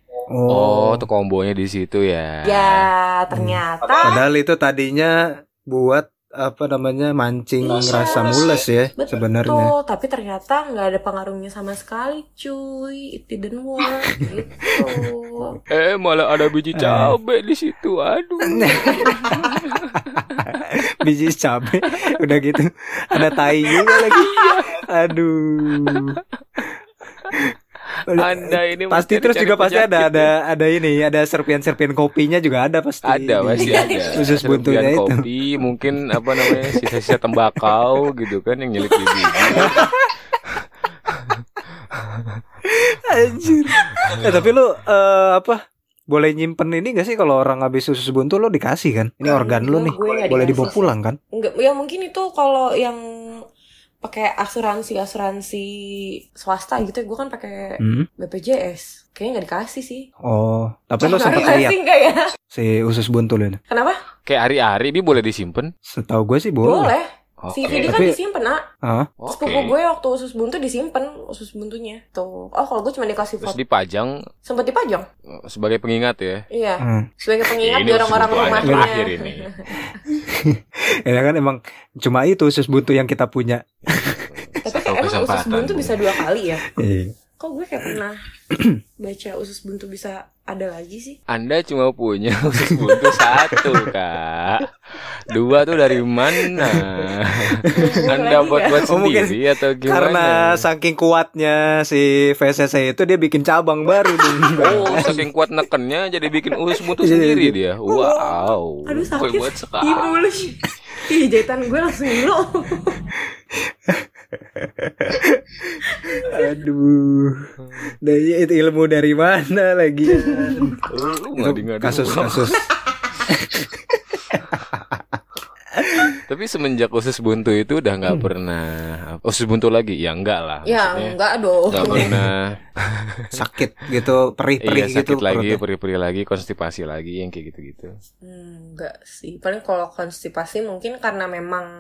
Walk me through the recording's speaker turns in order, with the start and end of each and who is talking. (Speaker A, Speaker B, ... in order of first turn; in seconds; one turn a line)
Speaker A: 0.3-1.0
Speaker B: 0.5-2.9
Speaker C: 2.4-4.2
Speaker A: 3.3-5.2
Speaker A: 5.7-9.7
Speaker C: 7.6-15.6
Speaker B: 15.7-20.3
Speaker A: 16.7-17.1
Speaker A: 18.5-26.2
Speaker C: 18.8-19.3
Speaker B: 23.1-24.8
Speaker B: 25.9-26.6
Speaker A: 28.1-36.9
Speaker B: 28.1-30.3
Speaker B: 33.0-39.9
Speaker C: 33.5-34.2
Speaker A: 37.5-37.8
Speaker A: 38.9-40.1
Speaker C: 39.4-39.9
Speaker B: 41.1-42.4
Speaker A: 42.6-45.6
Speaker B: 43.8-44.5
Speaker A: 46.1-51.2
Speaker C: 49.2-53.0
Speaker C: 54.0-60.1
Speaker A: 57.8-58.1
Speaker A: 60.2-61.7
Speaker C: 61.0-62.3
Speaker A: 62.5-63.6
Speaker C: 63.7-64.0
Speaker B: 64.2-65.7
Speaker A: 65.8-66.9
Speaker C: 66.6-68.6
Speaker B: 67.4-68.0
Speaker A: 67.8-68.2
Speaker A: 68.8-69.1
Speaker B: 69.2-69.7
Speaker C: 69.3-73.6
Speaker B: 73.4-74.2
Speaker C: 74.4-75.0
Speaker B: 75.3-76.4
Speaker C: 76.5-79.8
Speaker A: 76.8-77.1
Speaker B: 77.6-79.5
Speaker A: 78.6-78.9
Speaker A: 80.1-84.3
Speaker B: 84.0-86.0
Speaker C: 84.6-86.6
Speaker A: 86.7-87.1
Speaker C: 87.4-88.2
Speaker A: 88.5-88.8
Speaker C: 89.0-91.2
Speaker B: 91.3-100.6
Speaker A: 92.6-93.9
Speaker A: 96.0-97.7
Speaker C: 97.7-98.9
Speaker A: 98.9-105.2
Speaker C: 104.5-105.3
Speaker B: 104.6-110.2
Speaker A: 107.0-107.5
Speaker C: 107.8-113.0
Speaker A: 113.6-117.5
Speaker C: 115.9-116.4
Speaker B: 117.7-117.9
Speaker A: 118.0-120.8
Speaker C: 120.2-120.8
Speaker B: 120.9-122.5
Speaker A: 121.4-122.6
Speaker A: 123.3-125.2
Speaker A: 125.7-126.2
Speaker B: 126.3-131.2
Speaker C: 130.6-132.1
Speaker B: 131.7-133.3
Speaker A: 131.9-132.3
Speaker A: 133.3-135.6
Speaker B: 134.6-137.9
Speaker C: 138.2-141.7